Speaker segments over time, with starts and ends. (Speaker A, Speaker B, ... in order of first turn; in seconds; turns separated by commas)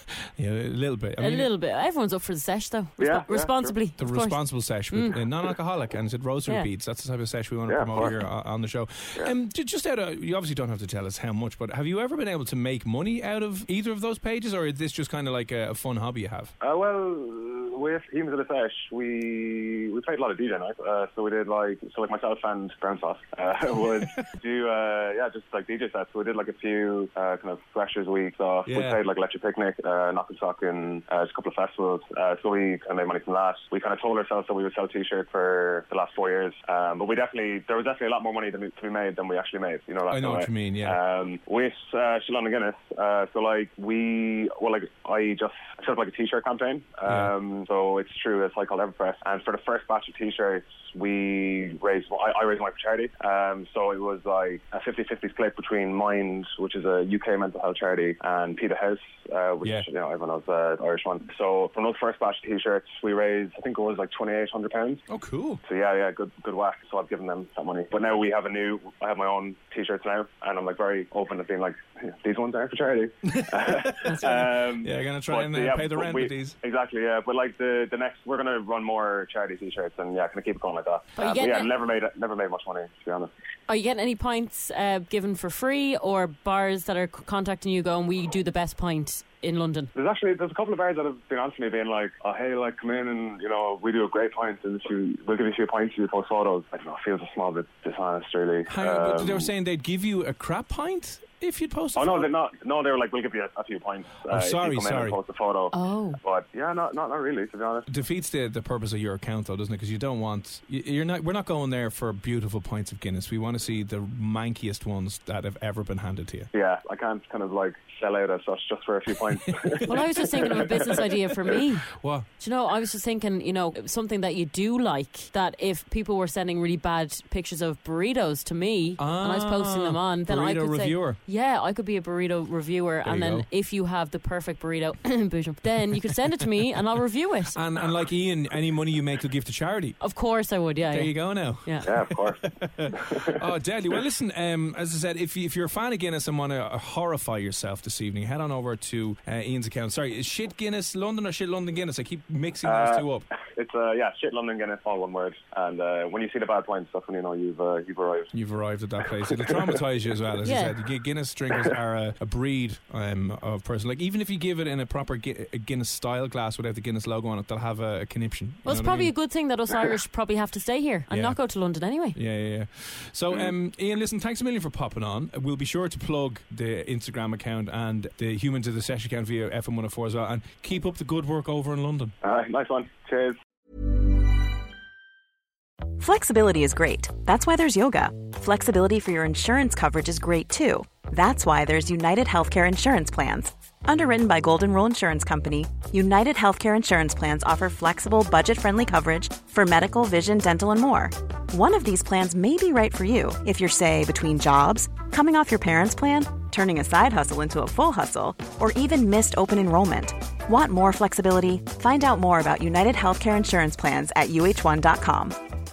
Speaker A: 0.4-1.5, Speaker B: 1.2-5.2, Speaker C: 3.0-3.8, Speaker A: 4.0-16.5, Speaker C: 7.7-8.2, Speaker C: 16.6-65.0, Speaker A: 28.7-29.0, Speaker A: 40.1-41.0, Speaker A: 47.1-47.3, Speaker A: 65.1-65.6, Speaker C: 65.7-83.3, Speaker A: 73.3-76.6, Speaker B: 81.2-81.7, Speaker B: 83.7-89.9, Speaker C: 90.0-99.5, Speaker A: 98.7-102.3, Speaker C: 102.0-107.9, Speaker A: 104.2-105.2, Speaker B: 105.7-106.2, Speaker A: 107.9-116.5, Speaker C: 116.5-121.0, Speaker A: 119.6-121.0, Speaker B: 119.8-137.6, Speaker A: 122.0-122.3, Speaker A: 129.0-131.2, Speaker A: 133.0-133.5, Speaker A: 137.6-140.0, Speaker B: 140.0-141.9, Speaker A: 140.9-153.3, Speaker C: 141.8-143.4, Speaker C: 152.6-158.3, Speaker A: 158.3-169.1, Speaker C: 159.2-159.8, Speaker B: 160.4-160.8, Speaker B: 168.7-172.2, Speaker A: 171.1-171.4, Speaker A: 171.9-182.1, Speaker C: 182.2-183.3, Speaker D: 186.0-215.4